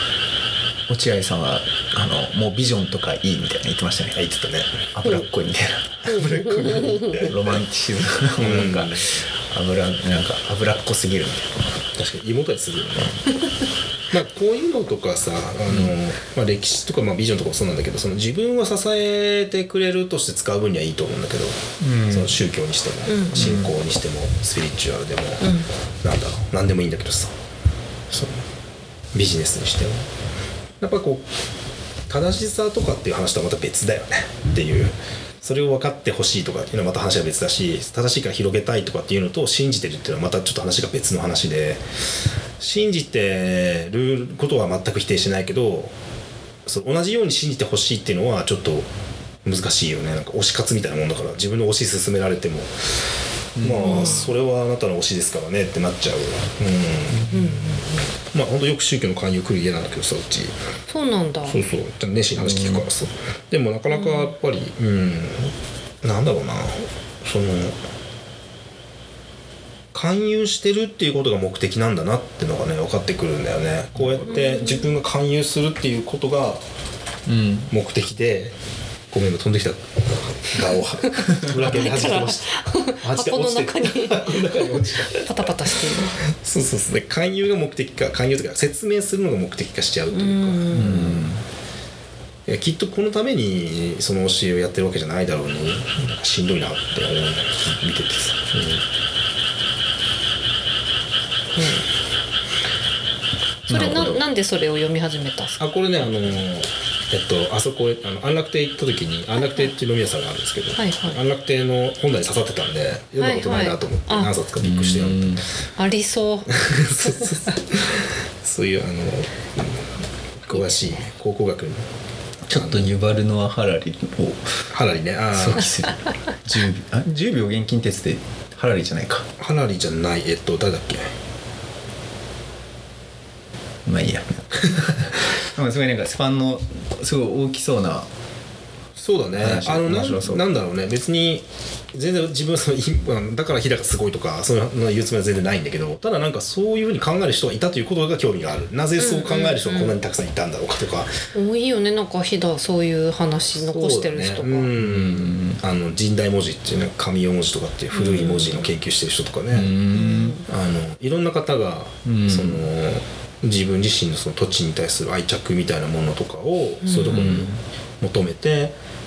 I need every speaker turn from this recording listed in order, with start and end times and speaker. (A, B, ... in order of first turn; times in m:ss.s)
0:00.9-0:04.2 A
0:04.2-0:04.9 B
0:04.9-0:11.8 A
0:06.1-0:07.2 C
0:06.8-0:07.5 B
0:08.4-0:09.1 B
0:12.0-0:13.2 B
0:14.1-0:25.5 B
0:15.7-0:15.9 A
0:21.8-0:22.4 A
0:23.1-0:23.4 C
0:23.3-0:23.7 A
0:25.4-0:25.7 C
0:26.0-0:27.4 B
0:28.1-0:28.4 B
0:29.1-0:30.1 B
0:30.8-0:31.2 B
0:32.1-0:41.8 B
0:42.6-0:45.9 B
0:46.7-0:48.9 B
0:49.4-0:52.8 B
0:53.6-0:54.3 A
0:53.6-0:57.7 B
0:53.8-0:54.3 C
0:57.3-0:58.0 C
0:58.3-1:00.6 B
1:00.9-1:01.6 C
1:01.5-1:07.8 B
1:02.4-1:02.8 A
1:03.9-1:04.3 C
1:09.9-1:16.6 B
1:14.0-1:14.2 A
1:14.3-1:14.9 C
1:17.3-1:17.7 A
1:17.7-1:18.6 B
1:19.1-1:31.3 B
1:21.4-1:26.2 C
1:30.1-1:31.0 C
1:30.7-1:31.4 A
1:32.5-1:38.8 B
1:41.6-1:41.9 C
1:43.7-1:45.6 C
1:43.7-1:44.2 A
1:45.6-1:55.4 B
1:49.4-1:49.7 C
1:50.8-1:51.2 C
1:53.2-1:54.3 C
1:54.6-1:55.4 A
1:55.8-1:57.6 C
1:56.5-1:59.8 B
2:00.4-2:01.9 B
2:00.5-2:01.0 C
2:02.5-2:04.5 A
2:02.5-2:02.9 B
2:04.7-2:05.7 B
2:05.3-2:09.3 A
2:09.4-2:11.1 B
2:13.9-2:18.1 A
2:19.0-2:31.1 B
2:19.4-2:20.4 A
2:29.0-2:30.0 C
2:31.3-2:34.7 C
2:33.5-2:39.8 B
2:34.8-2:35.6 A
2:37.9-2:38.7 C
2:39.5-2:40.4 A
2:39.9-2:40.4 C
2:40.5-2:47.5 B
2:42.0-2:42.6 A
2:46.9-2:47.3 C
2:47.1-2:47.6 A
2:48.0-2:48.8 B